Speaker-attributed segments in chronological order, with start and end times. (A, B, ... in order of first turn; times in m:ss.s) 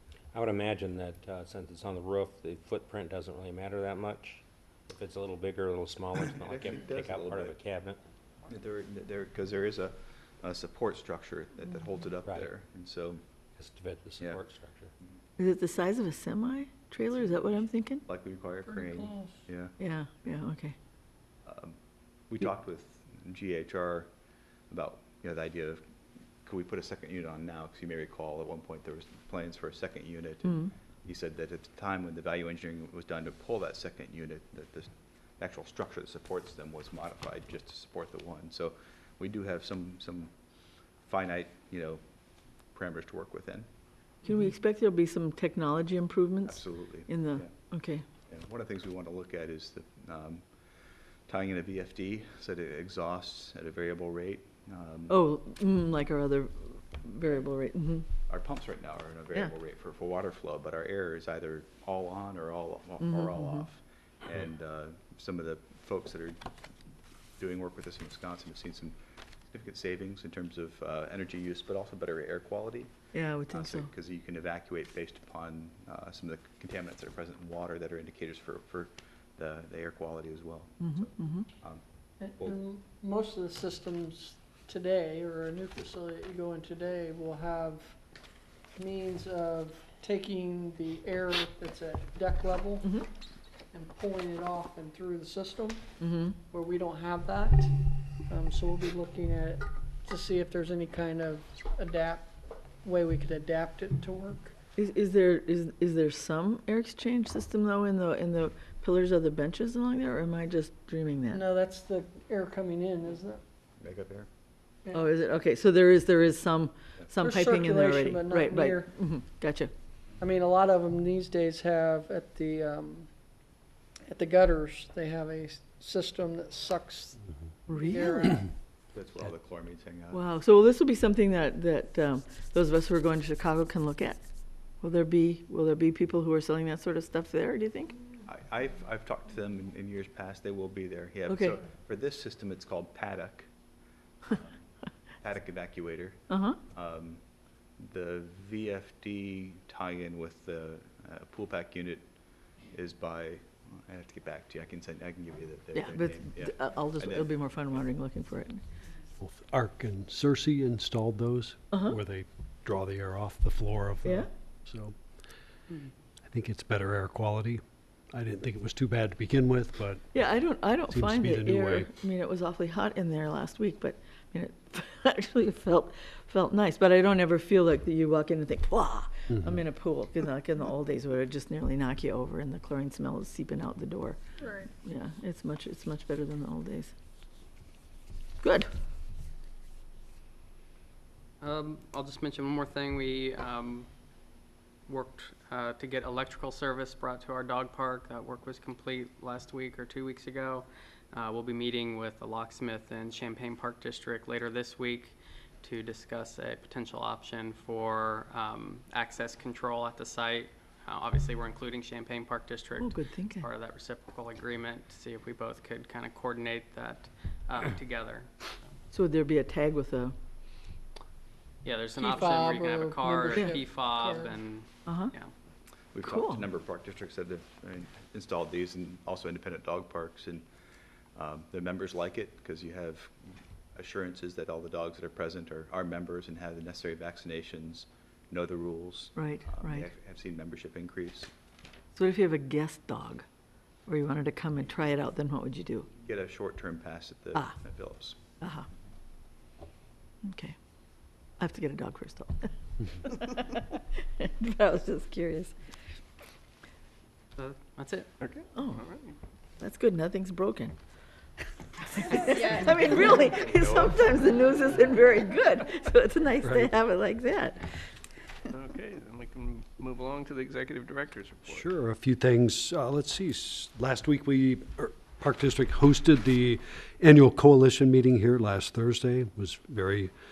0:00.3-0:08.0 A
0:06.1-0:07.6 B
0:08.5-0:13.2 B
0:12.2-0:12.5 A
0:13.6-0:14.9 A
0:15.4-0:18.0 C
0:18.1-0:19.7 B
0:18.6-0:19.4 D
0:19.8-0:20.7 C
0:21.4-0:21.8 B
0:22.3-0:24.1 B
0:24.7-0:25.8 B
0:26.4-0:40.3 B
0:41.0-0:42.0 B
0:42.7-0:43.7 B
0:44.2-0:48.0 C
0:46.4-0:47.5 B
0:48.3-0:50.4 B
0:51.3-0:55.2 B
0:55.1-0:58.0 C
0:58.3-1:06.4 B
1:03.0-1:03.6 C
1:07.4-1:09.0 B
1:09.5-1:12.9 B
1:13.1-1:13.9 C
1:13.5-1:21.0 B
1:20.8-1:21.5 C
1:22.2-1:28.0 D
1:28.7-1:33.0 D
1:32.8-1:33.1 C
1:33.7-1:35.8 D
1:36.0-1:36.4 C
1:36.5-1:37.7 D
1:38.3-1:44.5 D
1:44.8-1:51.4 C
1:51.3-1:53.4 D
1:53.8-1:54.3 B
1:54.9-1:59.7 C
1:57.2-1:58.9 D
2:00.2-2:03.1 D
2:04.1-2:07.2 D
2:07.7-2:08.4 C
2:07.7-2:08.5 D
2:08.9-2:10.2 B
2:10.1-2:14.2 C
2:14.8-2:17.9 C
2:18.2-2:23.5 B
2:21.3-2:21.6 C
2:25.2-2:27.2 B
2:26.3-2:26.6 C
2:27.8-2:32.0 B
2:32.7-2:37.3 B
2:35.7-2:38.6 C
2:39.2-2:44.9 E
2:41.7-2:42.0 C
2:46.3-2:50.0 E
2:50.1-3:04.2 C
2:50.9-2:51.9 E
2:59.3-2:59.6 E
3:04.4-3:04.7 D
3:04.8-3:06.9 C
3:08.4-3:08.7 C
3:11.4-3:13.9 F
3:14.9-3:38.6 F
3:32.8-3:33.4 C
3:38.9-3:40.1 C
3:41.6-3:45.3 F
3:42.0-3:44.4 D
3:43.3-3:43.6 C
3:44.8-3:45.1 C
3:45.9-3:50.4 B
3:46.0-3:46.4 C
3:51.1-4:01.3 B
3:59.2-3:59.9 C
4:01.9-4:03.2 C
4:03.8-4:05.9 C
4:06.0-4:08.2 B
4:08.4-4:08.6 C
4:10.2-4:10.5 C
4:11.4-4:15.5 C
4:17.4-4:18.1 F
4:18.2-4:19.2 G
4:18.5-4:18.9 C
4:19.6-4:20.7 C
4:21.8-4:27.7 C
4:26.4-4:26.7 E
4:28.5-4:31.6 G
4:31.4-4:40.1 E